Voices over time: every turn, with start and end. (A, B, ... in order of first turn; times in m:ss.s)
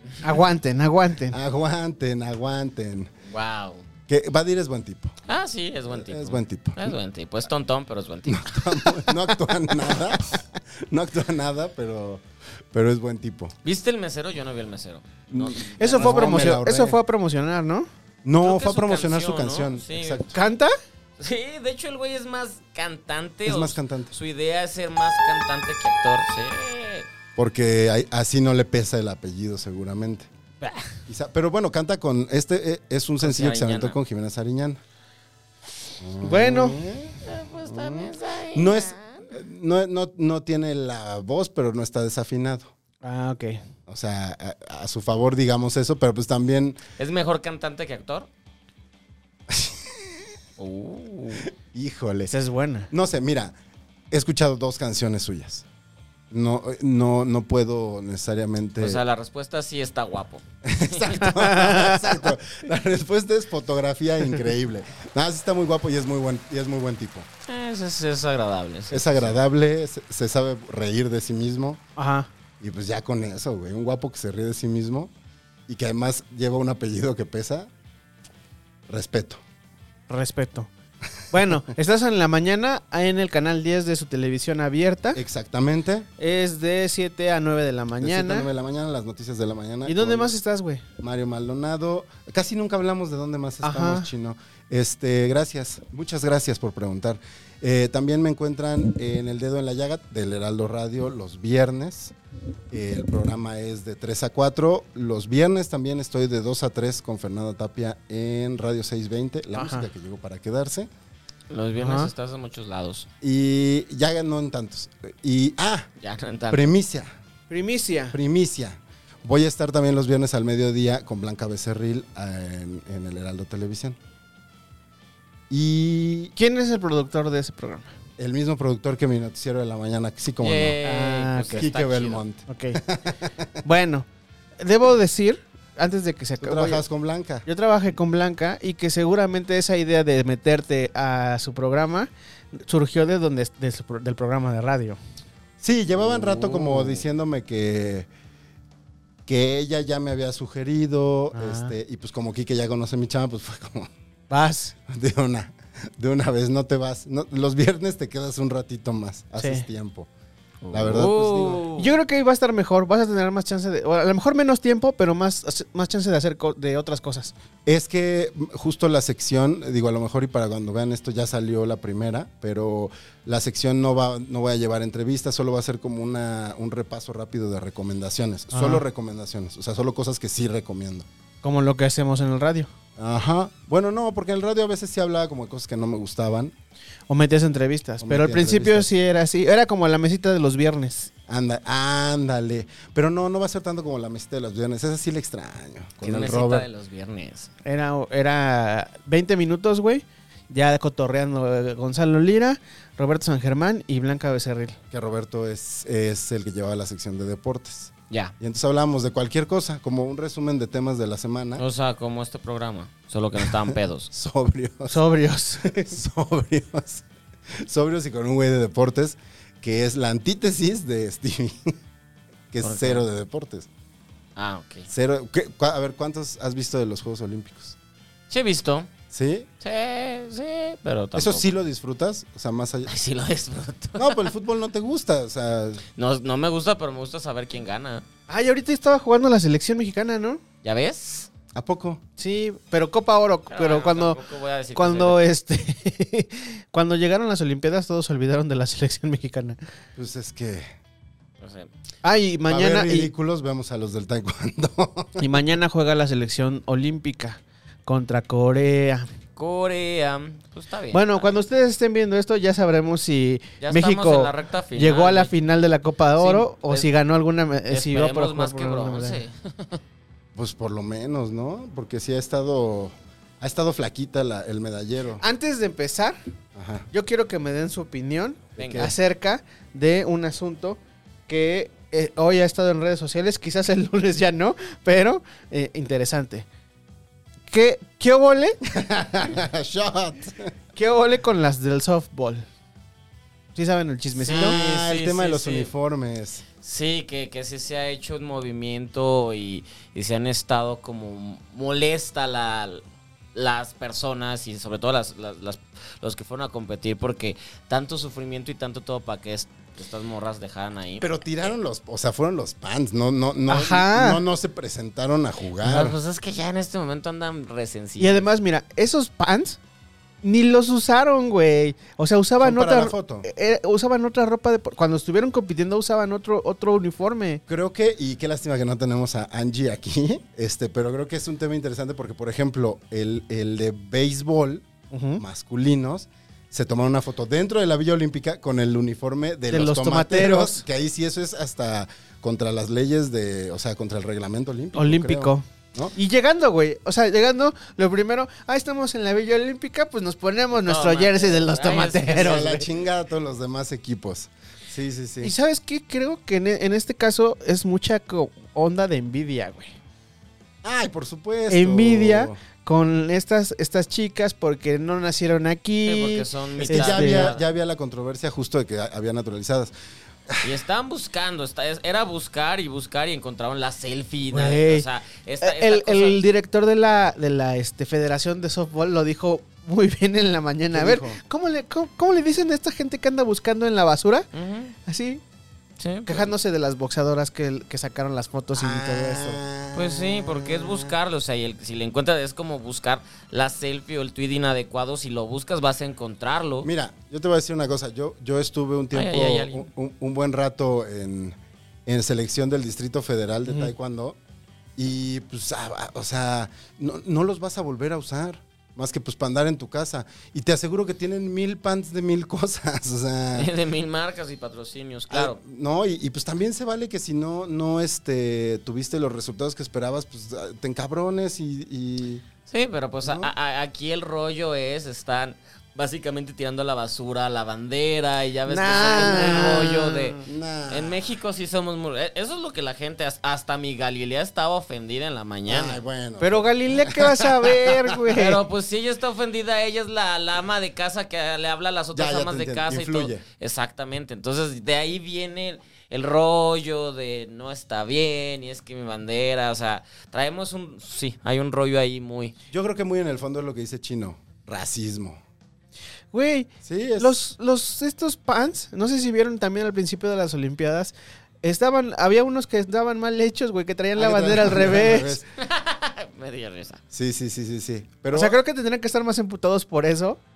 0:00.2-0:01.4 A
0:01.3-0:03.1 B
0:03.3-0:03.8 C
0:04.1-0:05.2 B
0:05.3-0:09.3 C
0:05.9-0:07.0 B
0:08.2-0:13.6 B
0:13.6-0:16.5 C
0:15.3-0:17.0 B
0:15.8-0:17.9 A
0:18.2-0:20.4 B
0:18.4-0:20.2 C
0:20.3-0:20.7 A
0:21.2-0:27.1 C
0:23.4-0:24.1 B
0:27.4-0:30.3 B
0:31.1-0:34.8 B
0:33.2-0:34.0 C
0:36.0-0:42.7 B
0:36.2-0:36.8 A
0:37.2-0:39.3 C
0:43.0-0:43.6 A
0:43.9-0:46.8 B
0:47.0-0:48.3 C
0:49.5-0:50.2 B
0:50.6-0:51.5 C
0:51.4-0:52.4 B
0:52.3-0:52.9 A
0:52.9-0:53.5 B
0:54.1-0:55.6 B
0:56.3-0:59.0 B
0:58.8-1:01.3 C
1:00.6-1:07.3 B
1:01.2-1:02.1 A
1:07.4-1:09.3 C
1:08.9-1:11.8 B
1:12.0-1:12.3 A
1:12.6-1:15.1 B
1:15.7-1:17.7 B
1:18.9-1:19.4 B
1:20.1-1:20.7 A
1:21.3-1:25.2 A
1:25.2-1:26.1 B
1:26.2-1:28.5 A
1:28.0-1:30.3 B
1:29.8-1:30.8 A
1:31.0-1:42.1 B
1:33.6-1:34.1 A
1:42.7-1:50.9 B
1:49.5-1:49.9 A
1:51.5-1:53.1 C
1:51.8-1:52.1 A
1:53.2-1:55.9 B
1:56.0-1:56.7 C
1:56.5-1:57.1 B
1:57.5-1:58.2 A
1:58.1-2:04.0 B
2:05.5-2:06.3 B
2:06.4-2:07.9 A
2:08.2-2:10.8 B
2:10.4-2:12.2 C
2:10.8-2:11.6 A
2:11.5-2:13.5 B
2:12.5-2:12.8 A
2:13.6-2:14.0 A
2:14.6-2:16.8 A
2:16.4-2:17.5 B
2:17.4-2:25.0 A
2:25.6-2:28.1 B
2:26.0-2:27.0 C
2:29.3-2:33.9 B
2:31.3-2:31.7 A
2:34.3-2:34.7 A
2:34.9-2:40.1 B
2:39.4-2:39.6 A
2:40.6-2:42.0 C
2:40.7-2:41.6 B
2:41.8-2:47.3 A
2:47.7-3:01.0 B
2:58.5-2:58.8 A
3:01.4-3:02.7 A
3:03.0-3:06.5 B
3:07.1-3:11.1 A
3:08.0-3:08.9 B
3:11.3-3:16.7 B
3:16.0-3:17.5 C
3:17.6-3:24.8 A
3:24.9-3:31.6 B
3:31.6-3:34.1 C
3:33.5-3:35.0 B
3:34.9-3:36.0 A
3:35.6-3:37.0 B
3:37.6-3:41.8 B
3:42.5-3:43.7 B
3:42.6-3:43.0 C
3:44.4-3:44.9 C
3:44.9-3:47.8 B
3:48.3-3:48.9 C
3:49.1-3:49.5 B
3:49.6-3:51.5 C
3:51.2-3:52.9 B
3:52.8-3:54.3 C
3:53.9-3:55.8 B
3:56.0-3:58.0 C
3:58.3-4:00.4 A
4:00.6-4:01.3 C
4:01.5-4:02.0 B
4:02.2-4:04.2 A
4:03.5-4:05.2 C
4:04.7-4:09.6 A
4:10.0-4:10.7 B
4:11.4-4:11.7 C
4:12.0-4:13.1 A
4:12.5-4:15.2 B
4:15.2-4:19.1 A
4:19.4-4:21.4 C
4:20.9-4:29.2 A
4:23.6-4:25.3 C
4:26.2-4:26.9 C
4:27.7-4:29.8 C
4:30.3-4:35.2 B
4:35.2-4:36.2 A
4:36.5-4:36.9 B
4:36.9-4:46.5 A
4:38.6-4:38.9 B
4:38.6-4:38.9 C
4:47.5-4:48.6 A
4:48.6-4:50.5 B
4:50.8-4:52.5 A
4:53.5-4:54.6 A
4:54.2-4:55.7 C
4:54.2-4:56.5 B
4:56.6-5:11.5 C
5:11.0-5:16.0 B
5:13.5-5:14.2 A
5:15.6-5:18.2 C
5:18.0-5:19.6 A
5:20.2-5:27.4 A
5:22.4-5:23.3 B
5:27.5-5:34.7 B
5:34.9-5:35.2 A
5:35.2-5:45.9 B
5:39.5-5:40.6 A
5:44.8-5:52.7 A
5:50.5-5:52.5 C
5:52.1-5:55.3 B
5:55.2-5:59.7 A
6:00.6-6:02.4 B
6:01.5-6:07.3 A
6:05.8-6:07.4 C
6:06.6-6:09.7 B
6:10.4-6:16.2 C
6:14.3-6:14.8 A
6:15.4-6:24.3 A
6:20.7-6:21.2 B
6:24.3-6:24.7 C
6:24.8-6:25.2 A
6:25.8-6:26.3 C
6:26.0-6:29.4 A
6:28.5-6:30.9 B
6:29.7-6:36.7 C
6:36.6-6:44.2 B
6:38.9-6:39.6 C
6:43.4-6:43.7 A
6:44.8-6:53.5 B
6:53.3-6:55.4 C
6:55.1-7:02.2 B
7:02.5-7:15.8 C
7:03.0-7:03.3 B
7:08.5-7:10.2 A
7:08.8-7:09.6 B
7:10.2-7:11.0 B
7:15.5-7:18.1 B
7:16.2-7:18.4 A
7:18.1-7:32.3 C
7:21.9-7:23.2 B
7:32.5-7:35.2 B
7:36.1-7:45.2 A
7:36.6-7:37.1 B
7:44.0-7:45.3 B
7:45.4-7:46.8 C
7:46.9-7:48.4 B
7:48.1-7:50.2 A